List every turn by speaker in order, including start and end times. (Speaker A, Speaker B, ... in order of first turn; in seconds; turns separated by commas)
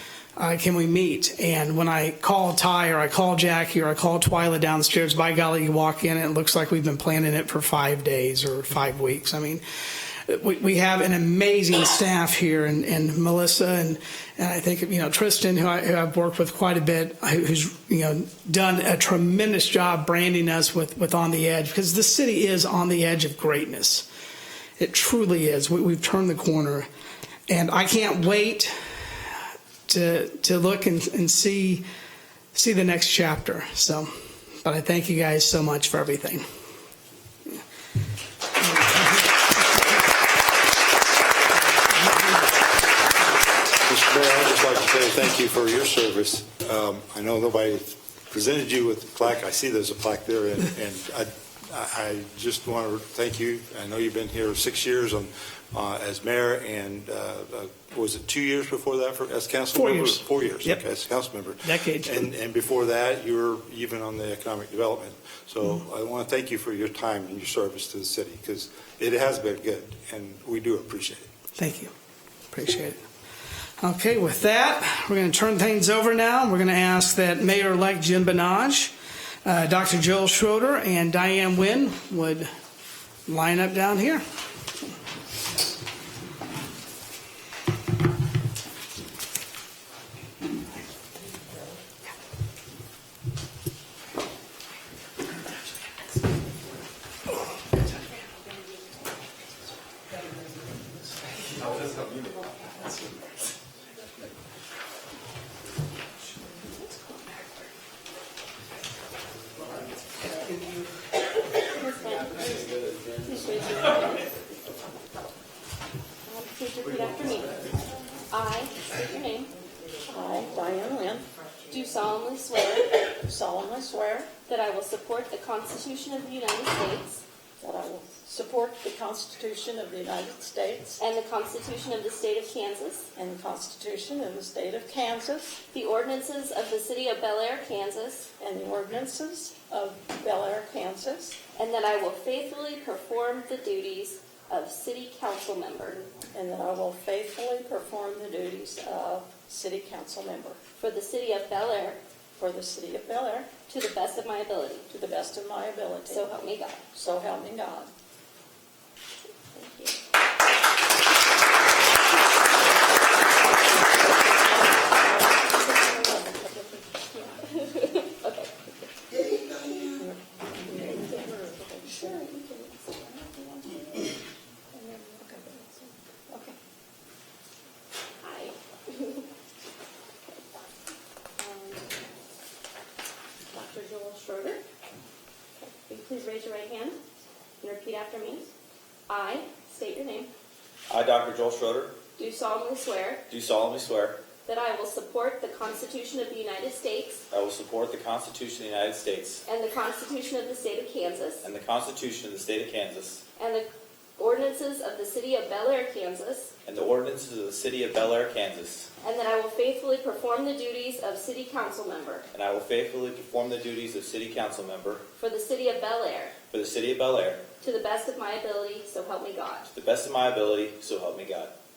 Speaker A: 0.4-24.1, Speaker A: 24.8-26.9, Speaker A: 27.5-28.8, Speaker A: 29.9-31.8, Speaker A: 32.5-34.1, Speaker A: 34.6-36.5, Speaker A: 38.6-39.3, Speaker B: 43.8-71.3, Speaker A: 59.7-60.8, Speaker A: 61.6-62.2, Speaker A: 71.6-71.9, Speaker A: 72.5-73.0, Speaker A: 73.8-82.5, Speaker A: 83.3-84.2, Speaker C: 106.5-107.6, Speaker C: 111.7-114.4, Speaker C: 116.3-117.8, Speaker C: 118.3-119.5, Speaker D: 120.1-121.3, Speaker C: 121.7-123.0, Speaker D: 123.2-124.3, Speaker C: 124.5-127.2, Speaker D: 127.6-131.0, Speaker C: 131.0-133.1, Speaker D: 133.2-135.6, Speaker C: 135.7-138.3, Speaker D: 138.4-141.4, Speaker C: 141.6-146.1, Speaker D: 146.3-150.6, Speaker C: 150.8-152.0, Speaker D: 152.4-153.6, Speaker C: 153.6-154.9, Speaker D: 154.9-157.9, Speaker C: 156.1-156.8, Speaker C: 159.5-160.0, Speaker D: 165.1-167.3, Speaker C: 167.3-168.9, Speaker D: 170.7-174.1, Speaker D: 174.8-176.6, Speaker C: 175.0-175.8, Speaker C: 178.2-179.3, Speaker C: 181.4-181.9, Speaker C: 183.5-184.6, Speaker C: 185.6-187.0, Speaker C: 187.6-188.5, Speaker C: 189.1-190.3, Speaker E: 190.9-192.0, Speaker C: 192.2-193.2, Speaker E: 193.3-194.3, Speaker C: 194.4-197.2, Speaker E: 197.3-199.4, Speaker C: 199.5-201.5, Speaker E: 201.4-203.2, Speaker C: 203.4-206.5, Speaker E: 206.7-208.9, Speaker C: 209.0-212.3, Speaker E: 212.3-215.1, Speaker C: 215.2-216.4, Speaker E: 216.5-217.5, Speaker C: 217.6-219.7, Speaker E: 219.7-221.6